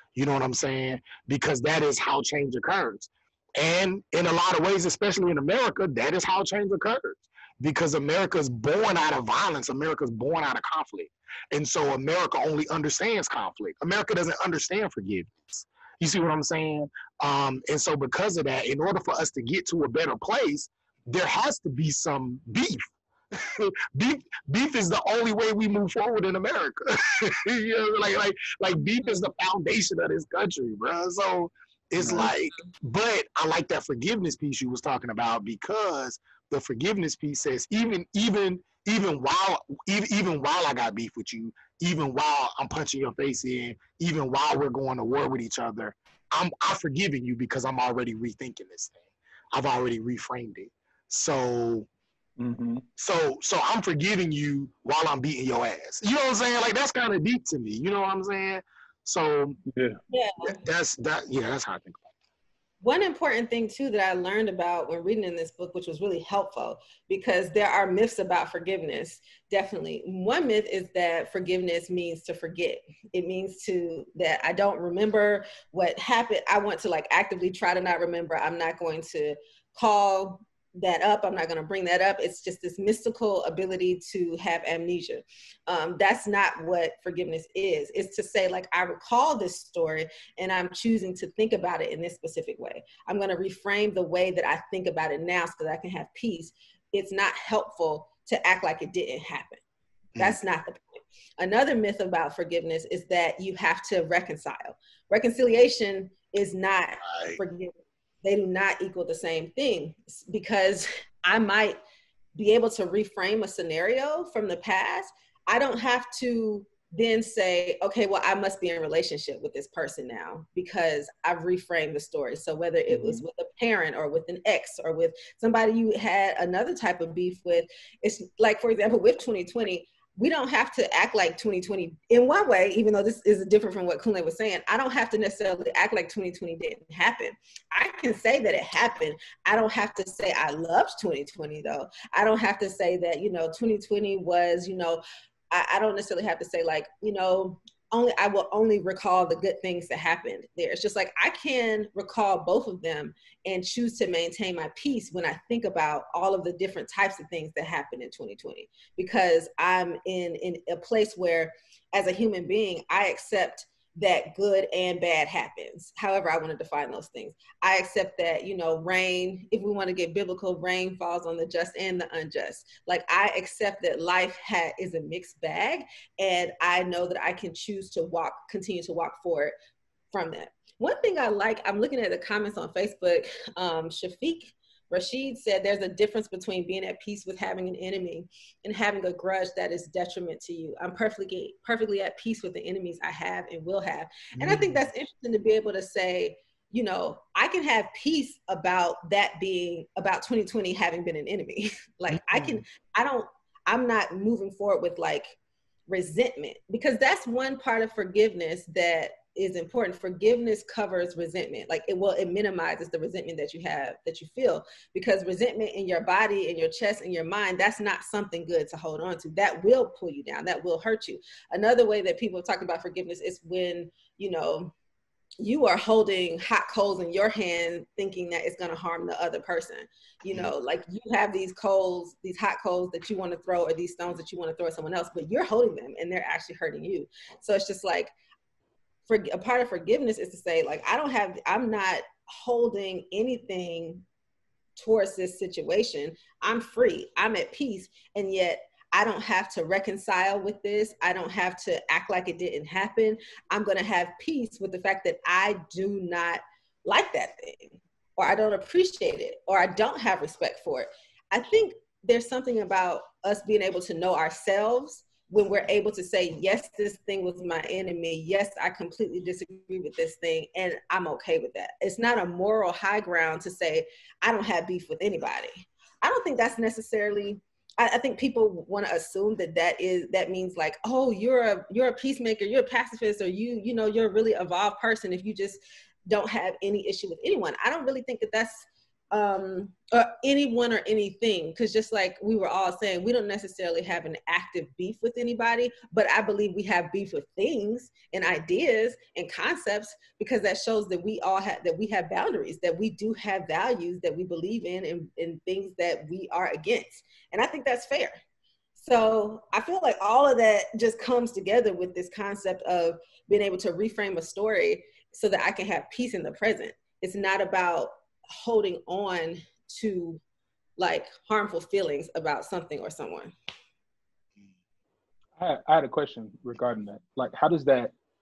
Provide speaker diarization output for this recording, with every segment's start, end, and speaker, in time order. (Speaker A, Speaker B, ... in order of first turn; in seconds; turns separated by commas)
Speaker A: 0.1-49.0, Speaker B: 32.0-32.3, Speaker A: 49.5-51.9, Speaker B: 52.4-52.8, Speaker A: 53.0-59.6, Speaker B: 59.7-60.0, Speaker C: 60.1-60.6, Speaker A: 60.4-62.0, Speaker C: 62.8-99.6, Speaker C: 100.2-111.8, Speaker A: 107.1-107.4, Speaker C: 112.4-179.5, Speaker C: 180.1-205.3, Speaker A: 194.4-194.7, Speaker A: 202.3-202.6, Speaker C: 205.9-224.7, Speaker C: 225.4-238.1, Speaker C: 239.1-244.0, Speaker C: 244.8-308.2, Speaker C: 308.8-320.2, Speaker C: 320.8-323.4, Speaker B: 325.4-327.9